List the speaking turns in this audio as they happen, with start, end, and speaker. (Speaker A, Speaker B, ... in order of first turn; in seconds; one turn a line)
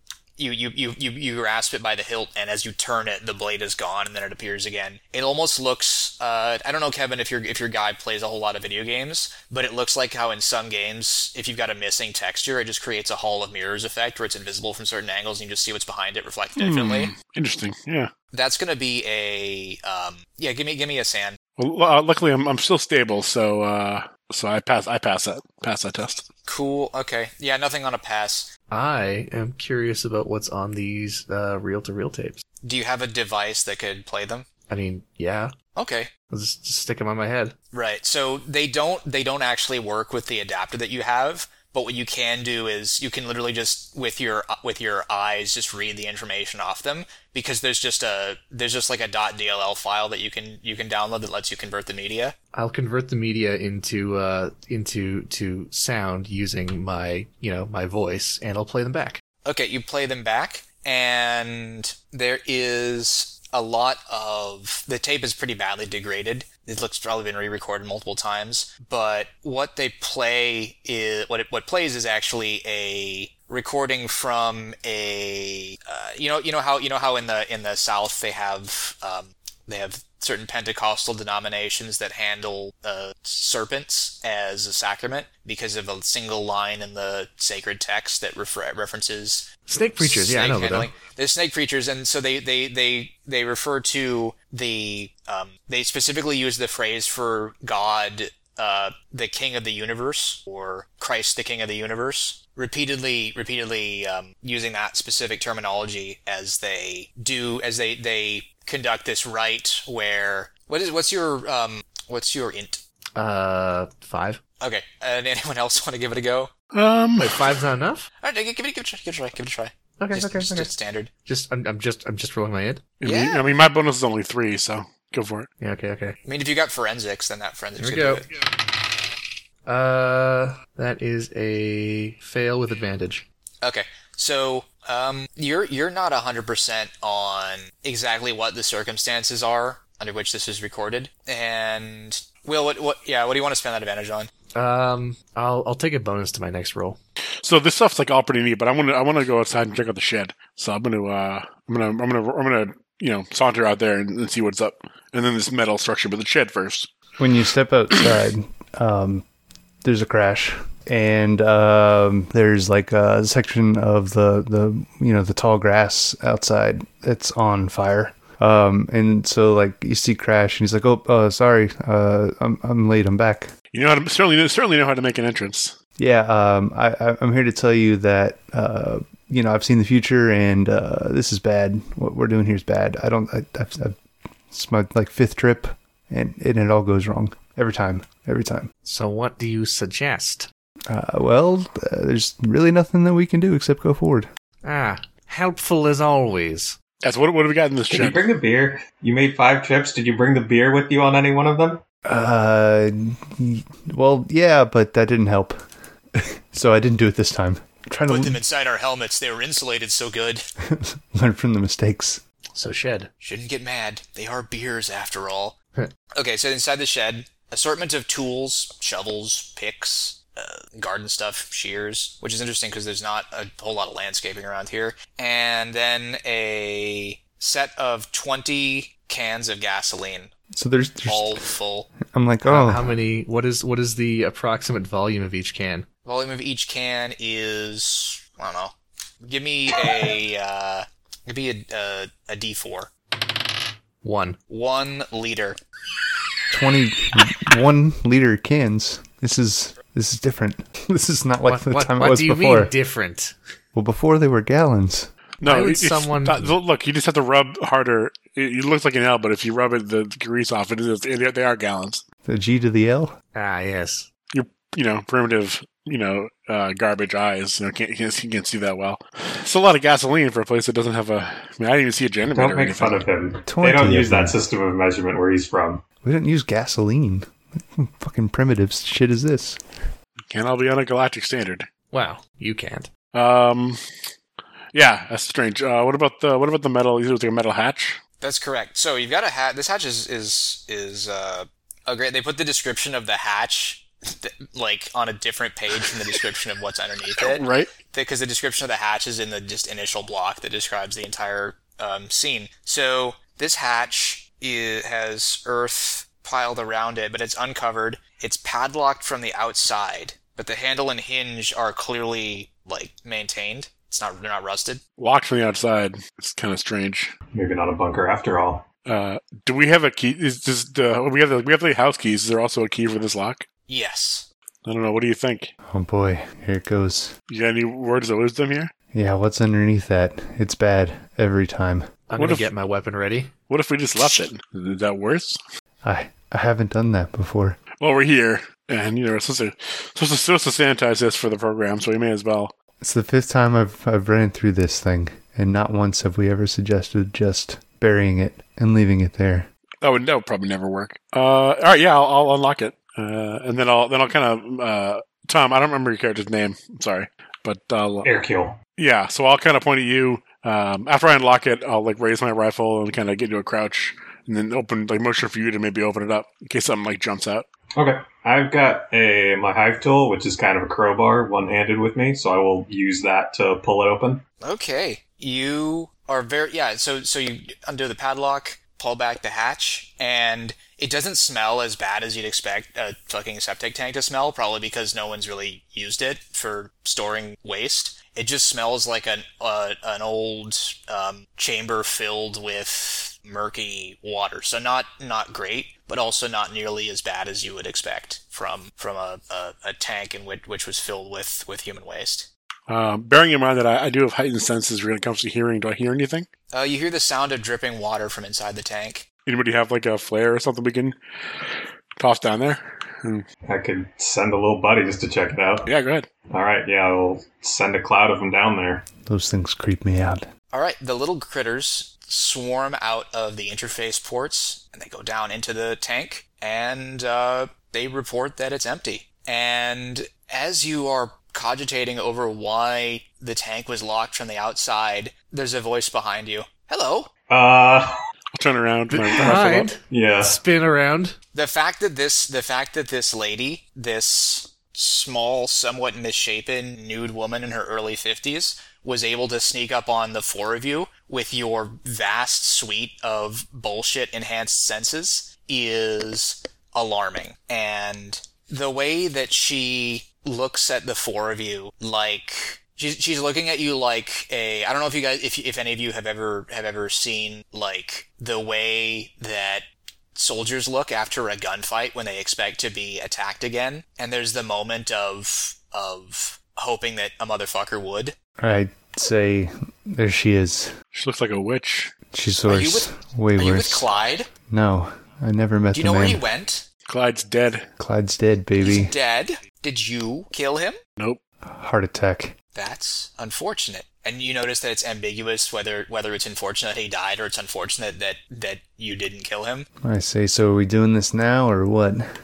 Speaker A: 0.4-17.1
Speaker B: 16.6-18.1
Speaker A: 18.3-21.4
Speaker B: 21.6-26.3
Speaker A: 26.4-28.5
Speaker C: 28.7-32.4
Speaker A: 32.6-34.5
Speaker C: 34.7-35.5
Speaker A: 35.8-36.1
Speaker C: 36.3-37.5
Speaker A: 37.7-52.3
Speaker C: 52.5-59.2
Speaker A: 59.4-112.8
Speaker C: 89.7-90.9
Speaker C: 113.2-114.4
Speaker A: 114.6-116.5
Speaker B: 116.7-117.5
Speaker C: 117.2-118.1
Speaker A: 118.2-121.1
Speaker C: 120.0-120.7
Speaker C: 121.2-122.8
Speaker B: 123.0-125.5
Speaker A: 123.0-123.4
Speaker C: 125.6-126.2
Speaker A: 126.2-128.3
Speaker C: 127.8-128.4
Speaker C: 129.7-133.2
Speaker A: 133.6-144.3
Speaker C: 144.6-147.0
Speaker B: 147.4-156.9
Speaker D: 157.2-159.2
Speaker D: 159.8-173.5
Speaker B: 173.7-175.8
Speaker D: 176.0-184.0
Speaker D: 184.5-188.7
Speaker C: 188.8-190.5
Speaker D: 190.9-194.3
Speaker C: 194.6-196.8
Speaker B: 197.0-198.2
Speaker E: 197.9-201.8
Speaker D: 202.1-205.6
Speaker D: 206.1-208.4
Speaker A: 208.1-210.4
Speaker D: 210.6-212.2
Speaker C: 212.5-213.1
Speaker A: 213.2-215.6
Speaker A: 216.1-230.3
Speaker D: 230.5-231.5
Speaker A: 231.1-231.9
Speaker D: 232.1-233.0
Speaker C: 232.4-235.9
Speaker A: 236.1-242.9
Speaker C: 244.0-244.4
Speaker A: 244.5-245.6
Speaker D: 246.5-252.7
Speaker C: 251.4-253.3
Speaker D: 253.7-255.1
Speaker B: 255.4-262.0
Speaker C: 255.4-256.6
Speaker D: 262.2-263.1
Speaker C: 263.3-264.1
Speaker B: 264.3-273.0
Speaker E: 272.2-275.8
Speaker D: 273.5-274.4
Speaker D: 276.0-279.6
Speaker B: 280.3-281.7
Speaker C: 281.9-282.9
Speaker B: 283.1-283.8
Speaker B: 284.7-288.0
Speaker A: 288.2-314.8
Speaker B: 297.2-297.7
Speaker B: 315.0-317.1
Speaker E: 317.3-318.7
Speaker B: 318.8-323.4
Speaker A: 323.7-324.3
Speaker B: 324.6-325.5
Speaker D: 325.7-327.1
Speaker B: 327.3-328.7
Speaker D: 328.9-331.9
Speaker C: 332.1-333.3
Speaker B: 332.2-332.5
Speaker B: 333.5-335.4
Speaker D: 335.8-337.6
Speaker B: 337.8-342.5
Speaker D: 342.8-349.5
Speaker B: 349.8-358.2
Speaker E: 358.0-358.6
Speaker B: 358.8-367.5
Speaker E: 367.8-374.2
Speaker A: 374.4-402.3
Speaker B: 402.7-406.3
Speaker A: 406.5-409.1
Speaker B: 409.2-411.0
Speaker B: 412.0-413.2
Speaker E: 413.5-415.7
Speaker B: 415.7-416.1
Speaker E: 416.3-418.9
Speaker D: 419.0-420.3
Speaker A: 420.5-437.1
Speaker E: 437.3-437.9
Speaker B: 438.3-439.7
Speaker C: 438.9-441.1
Speaker E: 439.9-440.4
Speaker A: 441.3-478.2
Speaker D: 478.4-480.7
Speaker B: 480.9-481.9
Speaker D: 482.1-483.9
Speaker A: 482.5-484.3
Speaker D: 484.5-486.2
Speaker A: 485.7-486.6
Speaker B: 486.9-487.7
Speaker D: 487.8-488.9
Speaker A: 488.6-490.8
Speaker D: 491.4-492.3
Speaker A: 492.6-499.7
Speaker D: 499.8-502.1